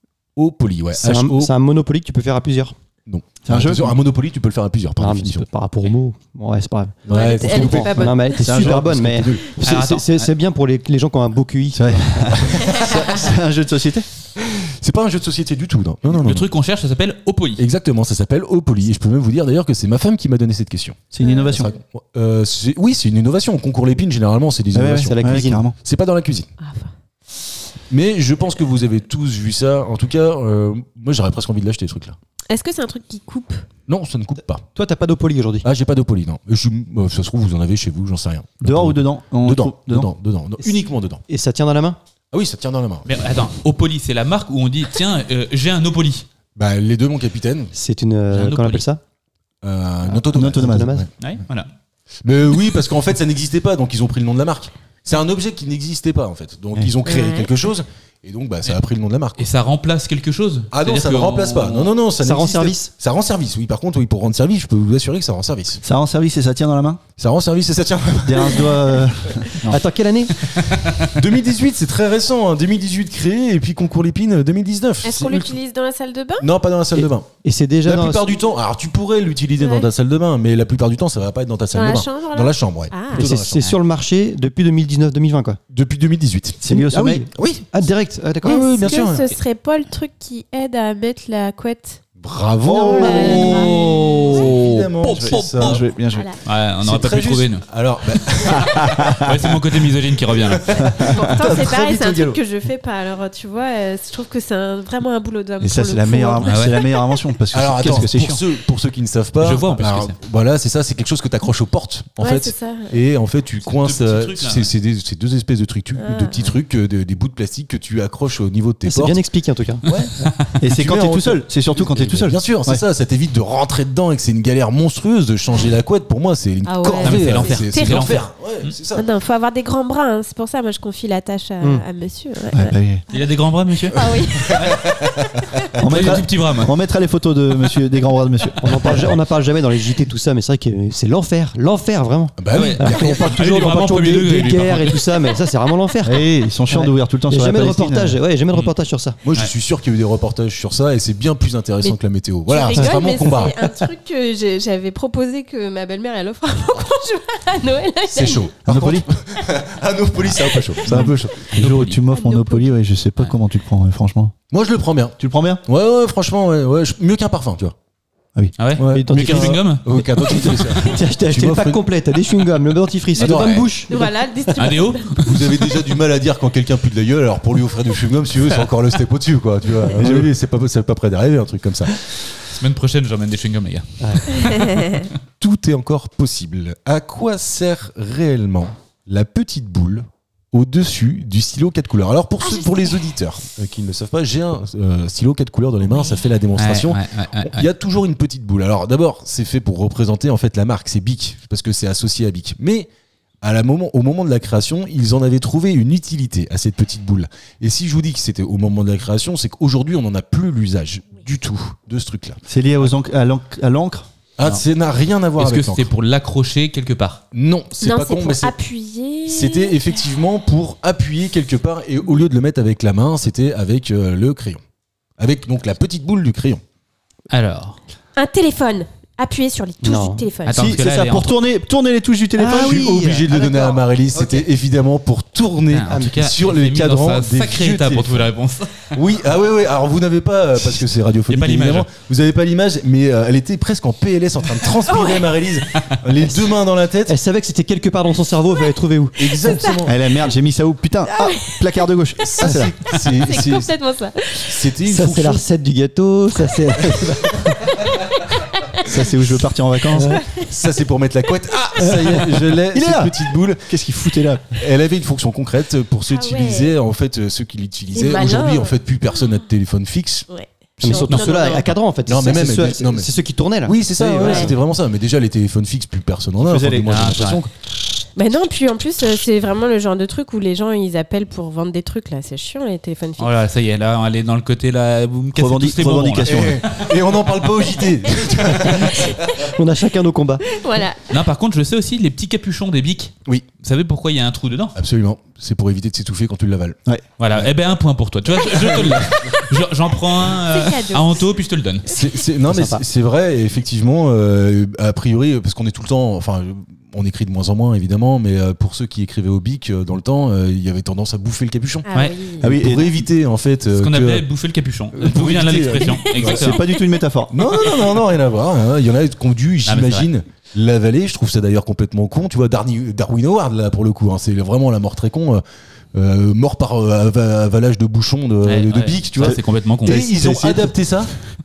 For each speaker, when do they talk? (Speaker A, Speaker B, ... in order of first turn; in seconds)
Speaker A: 0.3-1.5, 3.1-5.5, 7.0-9.4, 12.5-13.0, 14.5-16.5, 17.6-26.5, 27.9-32.2, 33.9-34.6, 35.6-41.2, 42.3-43.0, 46.5-47.7, 49.6-51.1, 52.2-59.5, 60.7-65.8, 67.2-68.8, 71.0-75.6, 76.4-77.3, 77.8-83.6, 85.7-86.6, 87.3-87.7, 88.4-89.3, 92.2-95.8, 96.8-99.2, 100.3-102.4, 107.5-119.2, 119.8-129.1, 134.1-135.4, 142.4-143.3, 149.2-153.6, 158.1-161.5, 164.5-167.7, 168.8-171.8, 173.1-173.7, 175.2-181.9, 185.4-202.9, 203.4-212.4, 214.4-215.9, 217.3-218.6, 219.2-224.6, 225.2-226.6, 232.5-238.3, 238.9-247.1, 249.2-250.0, 252.2-253.7, 254.4-255.4, 260.4-263.7, 264.5-270.3, 270.8-271.2, 272.1-273.1, 273.6-277.5, 286.2-289.3, 294.7-296.8, 298.4-299.2, 301.9-314.2, 314.9-316.5, 317.3-325.4, 325.9-331.1
Speaker B: 1.0-2.7, 5.0-12.4, 25.0-25.6, 34.7-35.6, 41.3-42.0, 47.7-49.0, 50.6-51.0, 62.2-62.9, 69.7-70.3, 76.9-78.3, 83.1-85.6, 86.6-88.7, 118.8-119.8, 138.6-149.2, 168.9-169.7, 170.2-174.1, 229.8-230.2, 232.4-234.4, 247.1-249.6, 254.8-257.8, 259.9-260.2, 261.8-262.3, 270.8-274.5, 289.3-290.4, 302.5-302.8
Speaker C: 3.5-3.9, 8.4-9.3, 11.7-14.1, 21.1-21.7, 24.7-25.7, 38.6-40.1, 50.2-50.9, 65.8-67.0, 68.2-69.8, 86.6-87.3, 92.7-96.3, 98.5-99.2, 105.6-108.4, 120.6-122.8, 132.5-133.0, 135.8-139.1, 146.0-148.2, 158.7-159.1, 160.9-164.3, 165.2-165.6, 180.0-180.3, 212.5-214.1, 230.5-232.8, 249.8-252.7, 258.8-260.2, 262.6-264.6, 276.4-276.8, 285.3-286.6, 312.4-312.9, 316.2-317.3, 329.2-330.8
Speaker D: 7.1-8.4, 21.2-21.6, 26.6-26.9, 32.5-33.6, 57.0-57.5, 75.0-76.5, 79.6-79.9, 81.7-83.3, 88.5-92.0, 92.8-94.3, 96.1-96.4, 100.7-107.2, 112.2-113.0, 116.0-116.5, 126.6-128.2, 128.9-133.1, 133.9-134.9, 152.5-158.5, 162.1-162.7, 173.9-175.3, 184.3-185.0, 192.4-193.0, 195.9-196.2, 217.8-219.8, 228.2-230.8, 244.9-245.3, 251.1-251.7, 252.4-254.6, 258.2-258.9, 260.0-260.5, 266.1-266.7, 267.9-268.7, 270.3-271.8, 274.2-274.5, 278.1-283.4, 288.9-289.2, 290.5-291.1, 300.5-301.2, 311.8-312.5, 316.0-316.4
Speaker E: 9.6-10.3, 16.1-17.6, 43.0-46.2, 48.3-48.8, 51.2-51.7, 59.4-61.9, 70.6-71.1, 93.8-95.8, 96.4-97.6, 99.1-100.8, 106.4-106.8, 109.4-110.2, 113.7-114.7, 119.9-120.3, 127.0-128.7, 133.1-134.8, 135.8-136.7, 142.5-145.0, 161.5-162.0, 168.6-169.8, 174.6-175.3, 182.4-185.0, 196.6-197.7, 215.4-217.2, 227.3-227.8, 230.4-231.3, 235.7-238.8, 241.3-241.9, 276.9-277.4, 283.2-286.9, 291.1-294.7, 297.2-301.9, 313.7-316.6, 319.6-320.1, 328.4-330.1